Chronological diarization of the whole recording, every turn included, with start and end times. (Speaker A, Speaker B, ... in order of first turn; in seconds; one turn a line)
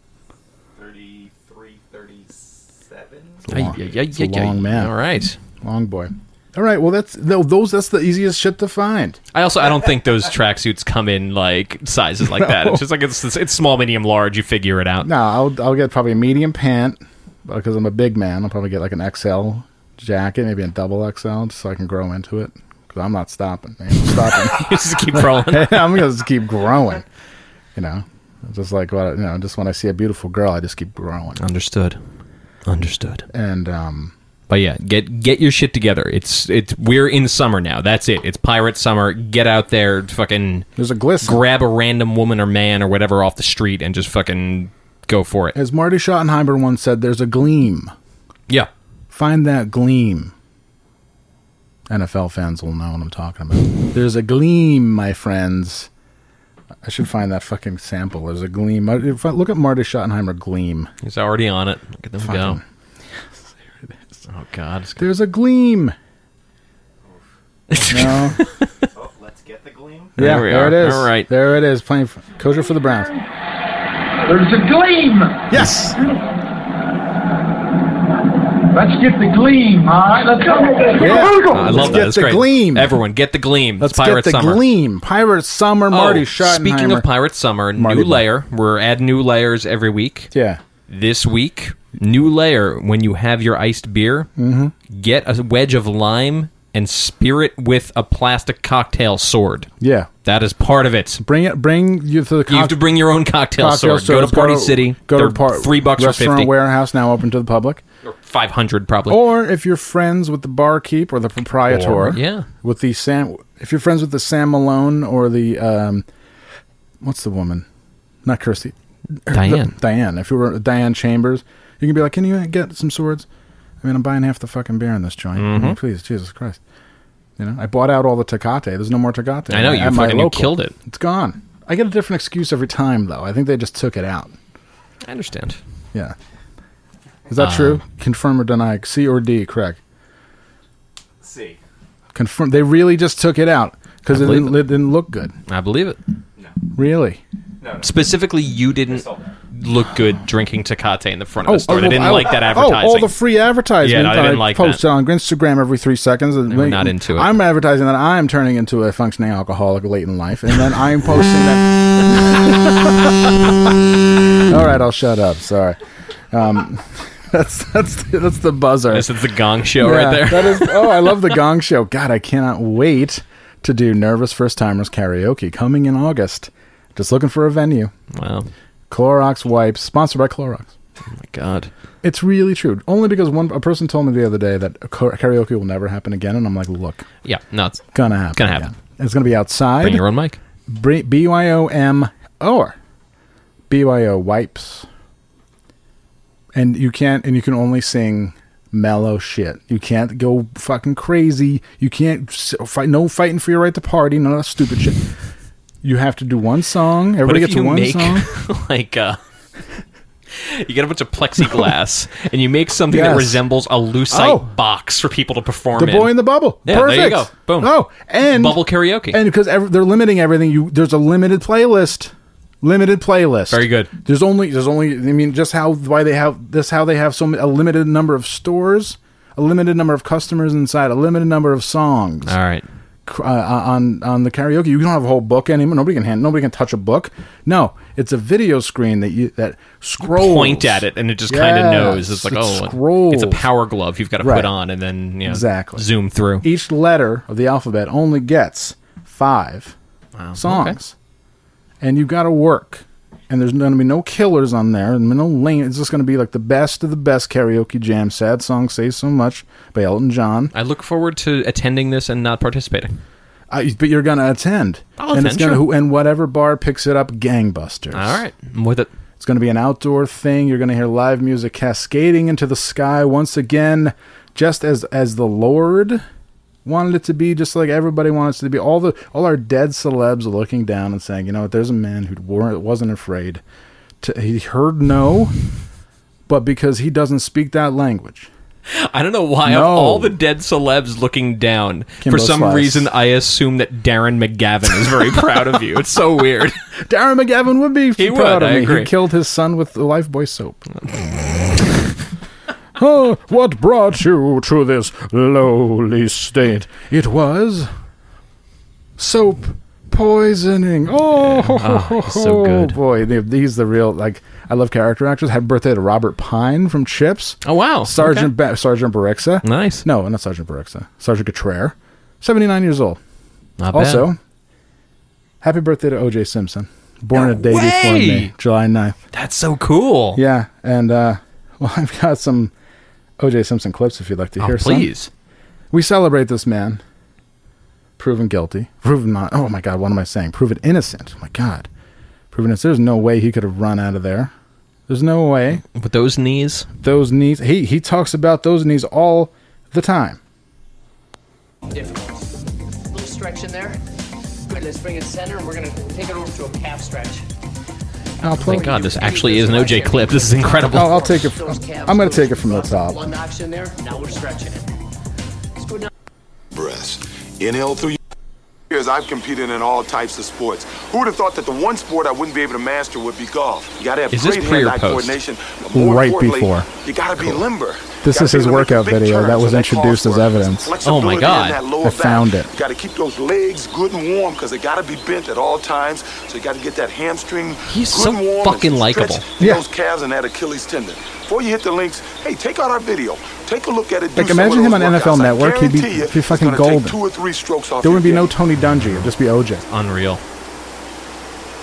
Speaker A: 0.8-3.5
Speaker B: 3.5-5.0
Speaker C: 3.5-5.4
Speaker B: 5.6-9.2
Speaker C: 9.3-15.1
Speaker B: 12.3-12.8
Speaker B: 15.0-27.1
Speaker C: 24.3-25.9
Speaker B: 27.8-31.4
Speaker C: 31.4-32.0
Speaker C: 32.7-33.3
Speaker B: 33.3-34.1
Speaker C: 34.5-40.7
Speaker B: 40.8-41.4
Speaker C: 41.2-45.6
Speaker B: 45.5-47.9
Speaker B: 49.1-50.3
Speaker B: 51.9-55.9
Speaker B: 56.8-60.9
Speaker C: 61.0-62.6
Speaker B: 62.2-62.6
Speaker C: 64.3-65.0
Speaker B: 65.0-66.0
Speaker C: 67.7-68.7
Speaker B: 67.9-68.4
Speaker A: 68.9-70.2
Speaker B: 70.2-73.2
Speaker C: 70.2-71.3
Speaker D: 74.2-75.5
Speaker B: 75.5-76.0
Speaker D: 78.7-81.8
Speaker B: 81.0-83.0
Speaker C: 81.3-84.6
Speaker B: 83.8-87.1
Speaker C: 85.9-90.3
Speaker B: 87.8-88.3
Speaker B: 90.3-90.6
Speaker C: 90.9-94.3
Speaker B: 94.4-94.7
Speaker C: 94.9-99.7
Speaker B: 99.8-100.1
Speaker C: 100.2-101.2
Speaker B: 101.2-102.9
Speaker C: 102.5-106.5
Speaker B: 103.6-107.8
Speaker C: 108.0-109.2
Speaker B: 109.1-116.1
Speaker C: 111.7-112.5
Speaker B: 117.0-117.7
Speaker B: 118.2-118.8
Speaker B: 119.3-123.3
Speaker C: 119.3-119.7
Speaker B: 123.8-126.6
Speaker C: 125.3-125.8
Speaker B: 127.4-134.3
Speaker C: 129.5-130.7
Speaker C: 135.1-135.6
Speaker B: 137.3-139.8
Speaker C: 137.4-137.8
Speaker A: 141.2-141.6
Speaker B: 142.1-145.3
Speaker C: 144.1-144.6
Speaker C: 145.5-146.0
Speaker B: 146.8-147.2
Speaker A: 147.6-148.1
Speaker C: 147.8-153.1
Speaker A: 148.8-149.3
Speaker B: 151.4-163.1
Speaker C: 153.8-154.8
Speaker C: 156.5-157.3
Speaker B: 164.4-165.8
Speaker B: 166.3-169.1
Speaker C: 168.9-171.3
Speaker B: 169.8-177.9
Speaker C: 178.1-178.5
Speaker B: 178.9-180.7
Speaker C: 181.2-181.7
Speaker B: 182.0-187.1
Speaker C: 187.2-188.7
Speaker B: 187.9-190.1
Speaker C: 189.8-190.4
Speaker B: 190.7-192.8
Speaker B: 193.7-194.9
Speaker B: 196.5-205.0
Speaker B: 205.8-208.3
Speaker C: 207.2-209.2
Speaker C: 210.3-217.7
Speaker B: 212.9-213.4
Speaker B: 214.1-214.5
Speaker B: 215.8-232.4
Speaker C: 218.3-219.2
Speaker C: 223.5-223.9
Speaker C: 232.3-232.6
Speaker B: 233.1-243.5
Speaker C: 240.1-246.4
Speaker B: 244.2-244.5
Speaker B: 245.3-245.9
Speaker B: 246.4-249.8
Speaker C: 250.2-250.8
Speaker B: 250.4-250.9
Speaker B: 251.8-260.5
Speaker C: 260.5-263.0
Speaker B: 263.5-268.2
Speaker C: 265.0-265.7
Speaker C: 267.9-268.9
Speaker B: 269.2-276.0
Speaker B: 276.6-283.4
Speaker B: 284.0-285.4
Speaker B: 286.3-288.3
Speaker C: 288.7-296.6
Speaker B: 289.4-290.2
Speaker B: 292.0-292.9
Speaker B: 296.8-300.6
Speaker C: 298.0-298.9
Speaker C: 300.8-301.6
Speaker B: 302.8-307.7
Speaker B: 309.0-323.0
Speaker C: 311.1-312.8
Speaker C: 317.4-318.3
Speaker C: 319.4-319.9
Speaker C: 323.6-324.1
Speaker B: 323.7-324.2
Speaker B: 325.4-329.0
Speaker C: 327.1-328.3
Speaker C: 329.1-330.2
Speaker B: 330.1-332.5
Speaker B: 333.2-334.9
Speaker C: 334.4-335.1
Speaker B: 335.7-336.8
Speaker B: 338.0-341.7
Speaker B: 342.3-344.3
Speaker B: 344.9-345.6
Speaker C: 345.7-346.7
Speaker B: 346.8-350.2
Speaker E: 351.7-353.8
Speaker E: 354.5-357.3
Speaker B: 358.2-358.8
Speaker E: 358.3-364.8
Speaker C: 358.4-361.1
Speaker B: 360.7-363.1
Speaker E: 365.6-365.9
Speaker F: 366.5-368.0
Speaker F: 368.7-398.3
Speaker C: 374.1-375.1
Speaker B: 375.7-376.7
Speaker B: 378.0-380.7
Speaker C: 380.8-381.6
Speaker B: 381.8-382.5
Speaker C: 387.7-389.2
Speaker B: 394.2-397.0
Speaker B: 397.8-399.6
Speaker C: 399.7-400.2